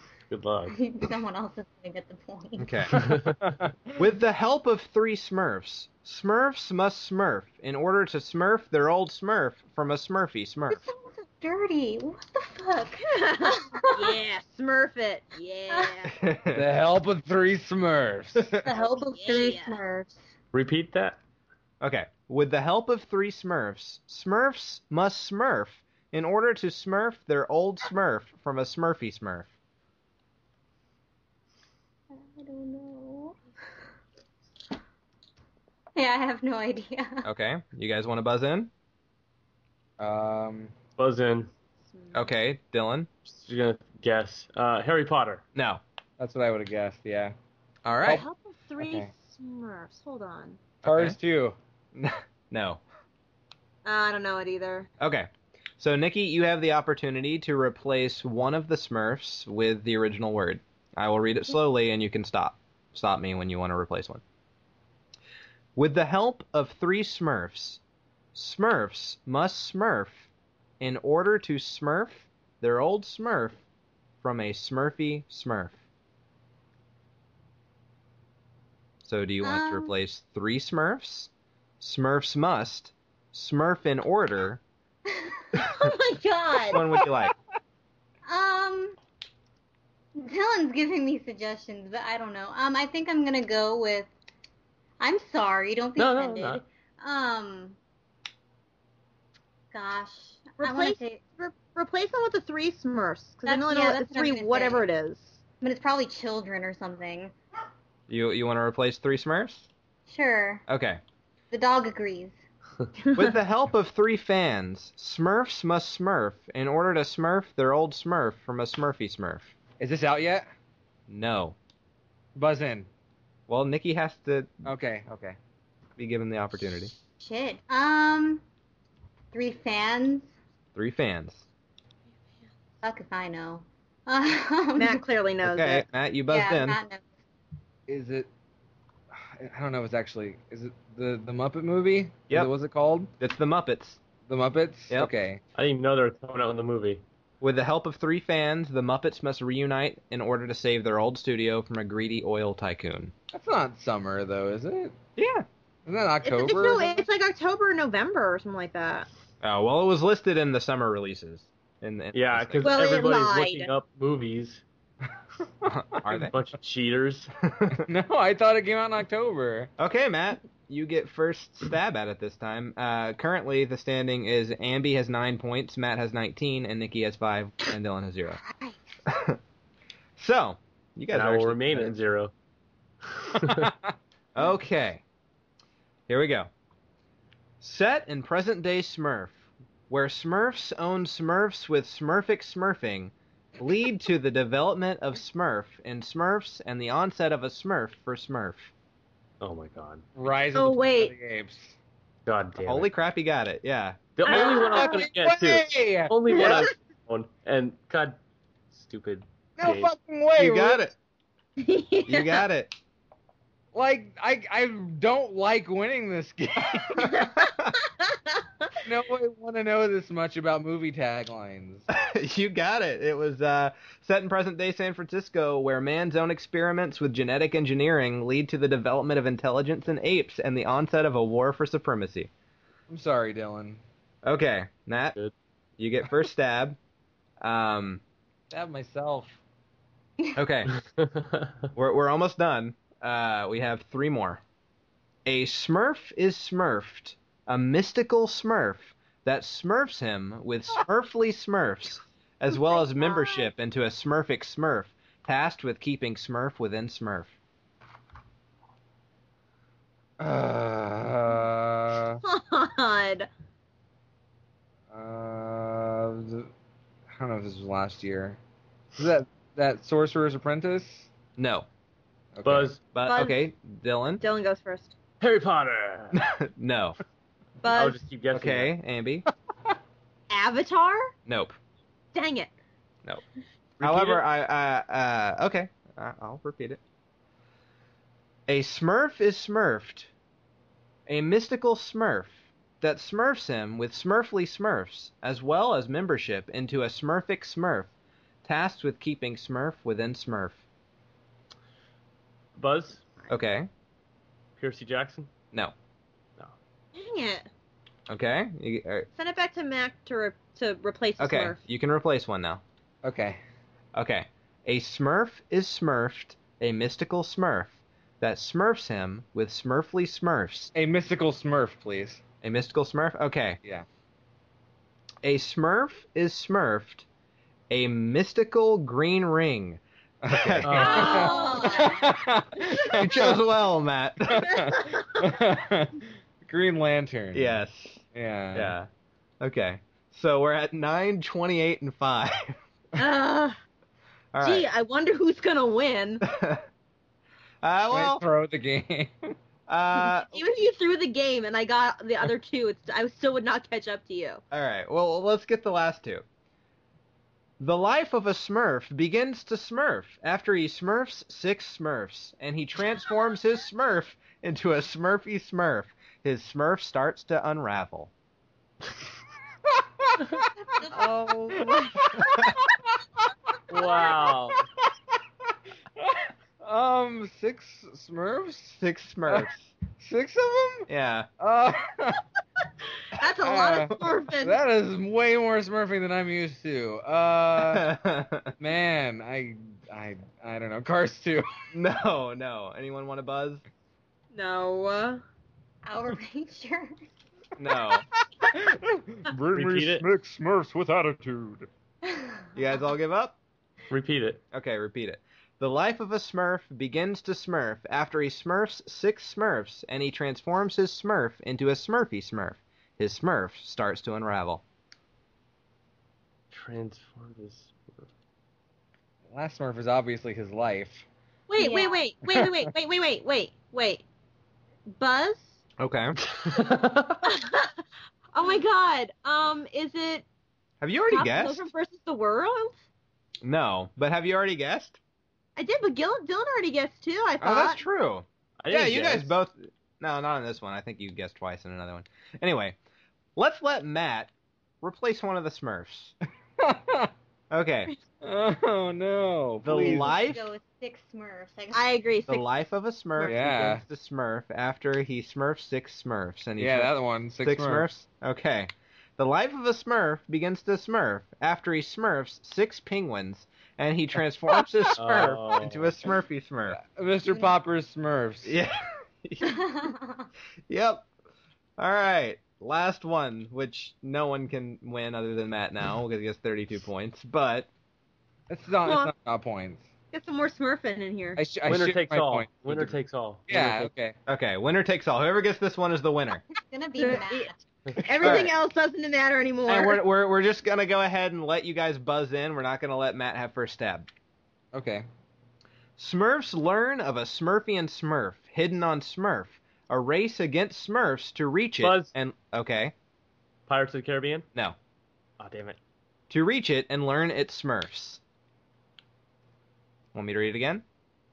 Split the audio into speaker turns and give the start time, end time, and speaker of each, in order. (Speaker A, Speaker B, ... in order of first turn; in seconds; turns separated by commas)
Speaker A: 0.3-0.8, Speaker B: 0.7-2.9, Speaker C: 2.6-3.3, Speaker A: 3.1-3.3, Speaker D: 3.4-3.7, Speaker C: 4.0-10.8, Speaker B: 10.7-14.2, Speaker E: 13.0-16.2, Speaker B: 15.7-16.0, Speaker C: 16.2-16.6, Speaker D: 16.5-18.6, Speaker B: 18.6-20.3, Speaker E: 18.8-19.8, Speaker A: 20.5-21.2, Speaker C: 21.8-29.5, Speaker B: 32.1-33.4, Speaker B: 36.0-37.3, Speaker C: 37.2-38.7, Speaker D: 40.0-40.7, Speaker A: 41.0-41.5, Speaker C: 42.1-43.1, Speaker A: 43.3-45.4, Speaker C: 45.6-45.8, Speaker D: 46.2-47.4, Speaker C: 47.9-48.2, Speaker E: 48.1-50.6, Speaker D: 48.8-49.1, Speaker D: 50.8-51.6, Speaker C: 50.9-51.2, Speaker C: 51.9-52.8, Speaker E: 53.9-54.9, Speaker C: 55.0-64.2, Speaker C: 65.8-67.8, Speaker C: 68.3-70.3, Speaker C: 70.8-73.6, Speaker C: 74.2-75.8, Speaker C: 79.0-81.3, Speaker B: 79.4-79.9, Speaker C: 81.8-84.6, Speaker B: 85.1-85.6, Speaker E: 85.6-86.9, Speaker B: 86.5-86.8, Speaker C: 86.7-87.3, Speaker B: 88.2-89.0, Speaker B: 90.2-94.1, Speaker B: 95.0-97.8, Speaker A: 96.0-96.7, Speaker B: 99.7-101.2, Speaker E: 100.6-105.4, Speaker B: 103.5-104.9, Speaker B: 105.6-107.3, Speaker C: 108.1-109.7, Speaker B: 110.1-110.6, Speaker C: 110.7-111.0, Speaker B: 111.5-112.4, Speaker C: 113.2-119.5, Speaker D: 119.8-120.5, Speaker C: 121.1-121.6, Speaker D: 122.3-122.9, Speaker C: 123.5-124.6, Speaker D: 124.7-125.4, Speaker C: 126.0-126.9, Speaker B: 127.2-128.4, Speaker B: 129.3-130.3, Speaker C: 130.8-131.4, Speaker B: 132.8-135.1, Speaker E: 134.8-135.9, Speaker C: 135.4-136.8, Speaker B: 136.3-137.1, Speaker D: 137.9-138.3, Speaker D: 139.3-143.1, Speaker C: 143.2-144.0, Speaker D: 144.3-145.4, Speaker A: 145.6-147.0, Speaker C: 147.4-153.1, Speaker D: 153.3-155.0, Speaker C: 155.2-155.5, Speaker D: 155.9-157.1, Speaker E: 156.2-159.1, Speaker C: 159.4-162.8, Speaker A: 162.1-164.6, Speaker E: 162.6-163.7, Speaker C: 165.7-166.3, Speaker A: 166.1-167.3, Speaker C: 167.5-167.8, Speaker D: 167.7-169.7, Speaker C: 169.8-178.4, Speaker B: 178.3-178.8, Speaker C: 179.1-179.4, Speaker C: 180.2-182.0, Speaker A: 181.1-182.3, Speaker A: 183.2-183.7, Speaker D: 183.4-183.9, Speaker C: 184.3-185.0, Speaker C: 186.1-186.5, Speaker C: 187.6-189.4, Speaker C: 189.9-198.7, Speaker A: 199.4-200.1, Speaker D: 200.2-201.8, Speaker E: 200.6-201.2, Speaker A: 202.3-202.9, Speaker C: 202.6-204.1, Speaker A: 204.2-208.2, Speaker D: 204.3-206.5, Speaker E: 204.3-204.9, Speaker E: 206.3-206.7, Speaker A: 208.7-209.9, Speaker D: 209.6-210.8, Speaker C: 210.4-210.9, Speaker E: 211.6-212.5, Speaker C: 212.1-212.8, Speaker D: 213.7-217.1, Speaker C: 216.9-217.8, Speaker E: 217.2-217.4, Speaker E: 218.0-218.7, Speaker D: 218.8-221.9, Speaker C: 221.9-232.3, Speaker D: 232.9-233.8, Speaker C: 234.2-235.2, Speaker C: 235.8-236.8, Speaker C: 237.4-238.0, Speaker D: 238.5-239.4, Speaker C: 240.4-240.8, Speaker A: 241.0-241.4, Speaker C: 241.8-244.4, Speaker C: 245.2-257.3, Speaker E: 252.7-253.4, Speaker D: 260.2-262.2, Speaker E: 262.2-263.3, Speaker D: 264.9-266.5, Speaker D: 267.1-268.4, Speaker D: 269.0-271.1, Speaker C: 271.4-271.7, Speaker D: 272.4-272.8, Speaker A: 272.4-272.8, Speaker C: 272.9-274.2, Speaker E: 273.0-273.4, Speaker E: 274.2-274.9, Speaker A: 275.2-276.2, Speaker C: 276.1-277.0, Speaker E: 277.6-278.0, Speaker A: 277.7-278.8, Speaker C: 278.3-279.3, Speaker E: 280.3-281.1, Speaker C: 281.3-281.6, Speaker E: 282.1-282.5, Speaker A: 283.8-284.3, Speaker C: 283.8-286.8, Speaker C: 288.5-290.1, Speaker C: 291.1-297.9, Speaker C: 298.4-300.6, Speaker A: 302.6-303.1, Speaker C: 303.3-303.7, Speaker A: 304.6-305.3, Speaker E: 306.9-307.5, Speaker C: 308.1-309.1, Speaker E: 309.2-311.6, Speaker C: 311.2-312.6, Speaker D: 313.0-313.4, Speaker C: 313.9-320.7, Speaker D: 320.8-322.2, Speaker C: 322.4-323.6, Speaker C: 325.2-327.1, Speaker C: 327.7-331.2, Speaker D: 330.3-333.4, Speaker A: 330.6-331.3, Speaker E: 330.7-332.0, Speaker B: 330.9-332.2, Speaker C: 332.8-334.7, Speaker D: 334.3-337.6, Speaker E: 334.6-335.3, Speaker C: 337.3-338.0, Speaker D: 338.1-338.8, Speaker C: 338.6-338.9, Speaker C: 339.4-342.6, Speaker E: 343.0-343.6, Speaker C: 344.3-344.7, Speaker E: 344.4-346.2, Speaker C: 346.2-346.6, Speaker C: 347.6-348.2, Speaker D: 347.9-349.3, Speaker C: 349.7-350.4, Speaker E: 350.1-354.4, Speaker C: 354.5-356.2, Speaker C: 357.6-368.1, Speaker D: 370.0-370.4, Speaker B: 370.7-371.7, Speaker D: 371.0-372.7, Speaker E: 371.2-371.7, Speaker A: 373.7-374.6, Speaker D: 376.0-380.9, Speaker C: 378.8-379.7, Speaker C: 380.9-381.3, Speaker D: 381.4-382.2, Speaker E: 383.1-384.6, Speaker D: 383.4-387.9, Speaker C: 387.6-388.5, Speaker D: 388.6-391.6, Speaker C: 391.7-393.6, Speaker E: 394.3-395.2, Speaker B: 395.8-397.0, Speaker C: 397.6-398.1, Speaker D: 398.4-401.7, Speaker A: 399.5-400.1, Speaker B: 402.0-402.5, Speaker C: 402.6-403.4, Speaker A: 403.9-404.4, Speaker C: 404.5-414.6, Speaker A: 416.5-418.1, Speaker D: 419.3-421.1, Speaker E: 421.5-424.1, Speaker B: 421.6-422.0, Speaker D: 422.3-422.6, Speaker E: 424.9-425.6, Speaker C: 425.8-426.2, Speaker A: 426.3-427.3, Speaker E: 427.2-427.8, Speaker E: 428.3-430.3, Speaker C: 430.8-431.7, Speaker E: 431.1-432.8, Speaker C: 433.4-435.0, Speaker E: 435.6-437.8, Speaker C: 437.4-442.8, Speaker A: 438.6-439.4, Speaker C: 443.4-446.1, Speaker D: 446.6-447.1, Speaker C: 447.5-447.9, Speaker D: 448.2-450.1, Speaker C: 449.6-450.4, Speaker B: 449.7-451.9, Speaker E: 451.7-452.6, Speaker C: 452.3-466.8, Speaker D: 453.2-453.8, Speaker D: 456.6-457.9, Speaker A: 465.0-466.1, Speaker D: 466.7-468.6, Speaker C: 468.4-469.7, Speaker B: 469.4-470.3, Speaker C: 470.7-471.1, Speaker C: 471.8-477.7, Speaker D: 478.5-479.9, Speaker E: 478.9-479.1, Speaker E: 480.1-481.4, Speaker D: 481.4-483.0, Speaker A: 481.7-483.9, Speaker D: 483.5-484.2, Speaker C: 484.3-486.4, Speaker B: 486.6-487.6, Speaker E: 487.0-490.0, Speaker C: 488.2-488.6, Speaker C: 489.7-494.1, Speaker D: 494.7-495.1, Speaker C: 496.0-502.9, Speaker A: 501.8-502.1, Speaker A: 503.7-504.5, Speaker A: 505.4-505.8, Speaker C: 506.3-508.2, Speaker C: 510.1-510.8